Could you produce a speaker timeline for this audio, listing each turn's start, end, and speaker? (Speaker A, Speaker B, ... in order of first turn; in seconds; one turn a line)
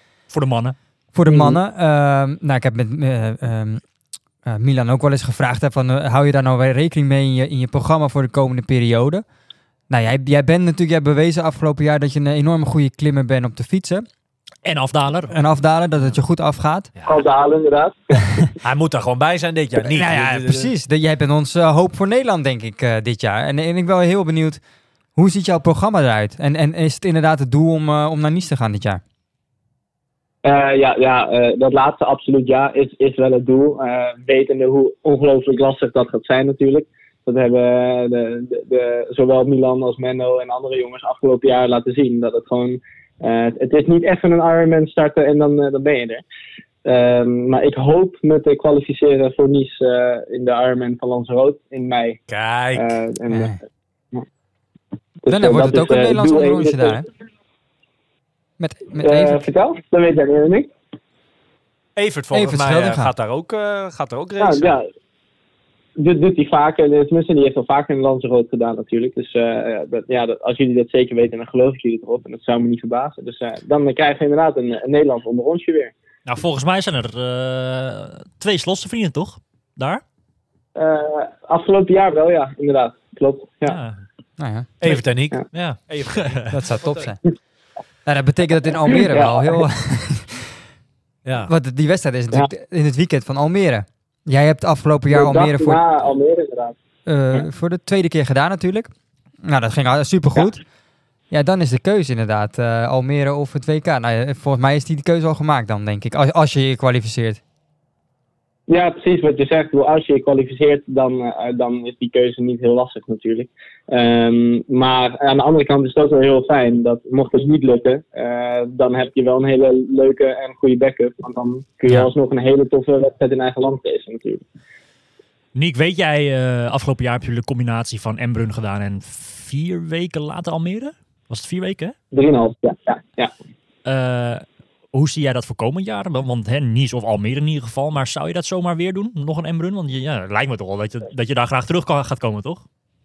Speaker A: 0.3-0.8
Speaker B: 1.1-3.8
Speaker C: 1.3-1.6
Speaker B: 4.4-9.2
Speaker B: 9.9-14.1
Speaker A: 14.6-15.4
Speaker B: 15.3-16.9
Speaker C: 17.1-18.1
Speaker D: 18.6-20.7
Speaker B: 19.8-24.6
Speaker B: 25.1-29.0
Speaker C: 30.4-46.2
Speaker C: 46.8-52.2
Speaker D: 52.3-52.9
Speaker C: 52.7-53.5
Speaker B: 53.3-53.6
Speaker C: 55.2-57.0
Speaker B: 55.3-57.0
Speaker B: 58.6-59.5
Speaker C: 59.0-60.7
Speaker D: 62.0-64.8
Speaker B: 62.3-63.1
Speaker C: 64.4-64.9
Speaker C: 66.0-75.9
Speaker A: 76.2-80.0
Speaker C: 80.7-83.8
Speaker A: 83.6-84.0
Speaker B: 84.4-84.7
Speaker D: 84.8-86.6
Speaker A: 85.5-86.5
Speaker B: 86.5-87.2
Speaker B: 88.0-90.6
Speaker C: 89.0-89.6
Speaker D: 91.2-91.5
Speaker B: 91.5-95.8
Speaker C: 95.1-96.8
Speaker B: 97.0-98.9
Speaker B: 99.4-100.6
Speaker B: 101.3-107.4
Speaker C: 108.7-124.4
Speaker A: 125.5-131.9
Speaker C: 132.1-133.3
Speaker A: 133.8-142.6